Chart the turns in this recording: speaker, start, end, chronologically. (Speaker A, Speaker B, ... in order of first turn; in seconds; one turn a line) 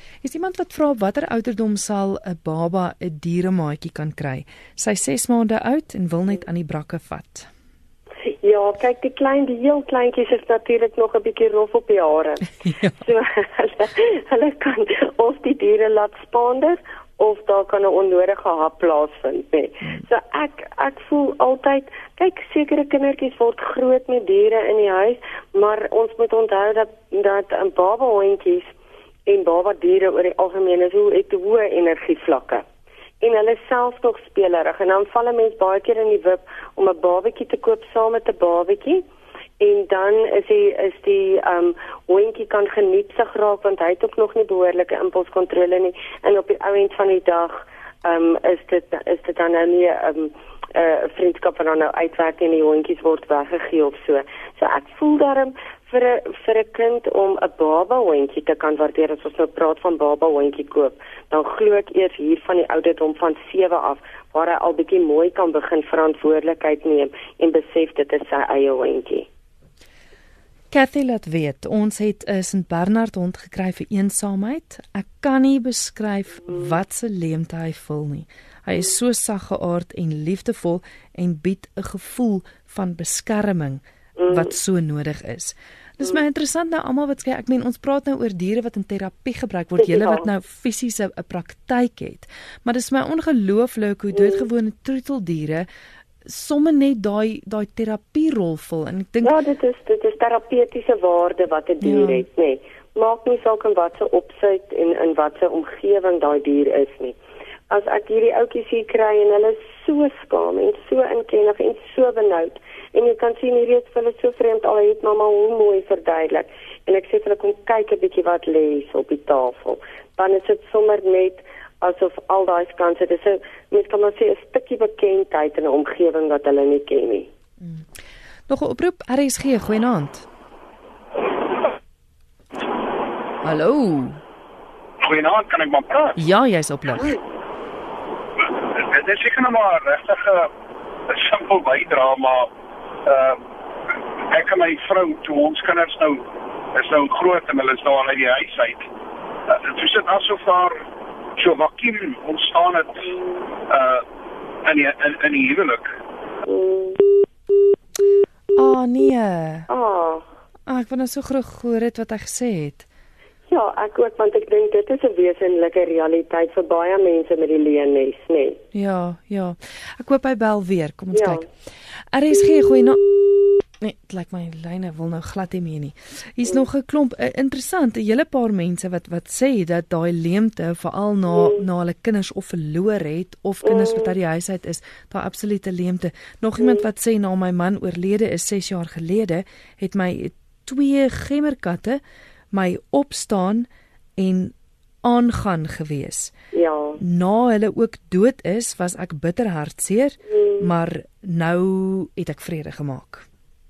Speaker A: 0.2-7.5
Speaker B: 8.4-28.7
Speaker A: 12.6-13.0
Speaker B: 29.3-32.6
Speaker B: 33.2-39.0
Speaker B: 39.6-69.3
Speaker A: 70.7-95.7
Speaker B: 84.2-84.5
Speaker B: 89.8-90.2
Speaker B: 94.1-94.5
Speaker A: 96.2-99.3
Speaker B: 99.2-107.2
Speaker A: 101.8-102.2
Speaker B: 107.7-127.3
Speaker A: 127.6-127.9
Speaker A: 128.5-130.3
Speaker A: 133.4-134.2
Speaker C: 135.0-136.2
Speaker A: 136.2-137.2
Speaker C: 138.5-140.5
Speaker C: 141.1-142.5
Speaker C: 143.1-143.4
Speaker C: 144.3-146.2
Speaker C: 146.8-148.9
Speaker C: 149.5-150.8
Speaker C: 151.4-153.2
Speaker C: 153.7-154.0
Speaker C: 154.7-155.9
Speaker B: 156.5-157.0
Speaker A: 158.6-159.7
Speaker B: 159.7-160.3
Speaker A: 160.7-162.9
Speaker B: 163.5-168.6
Speaker A: 168.7-192.0
Speaker B: 171.1-171.4
Speaker B: 183.7-184.1
Speaker A: 192.5-196.3
Speaker B: 196.5-197.0
Speaker A: 197.0-203.3
Speaker B: 200.3-200.7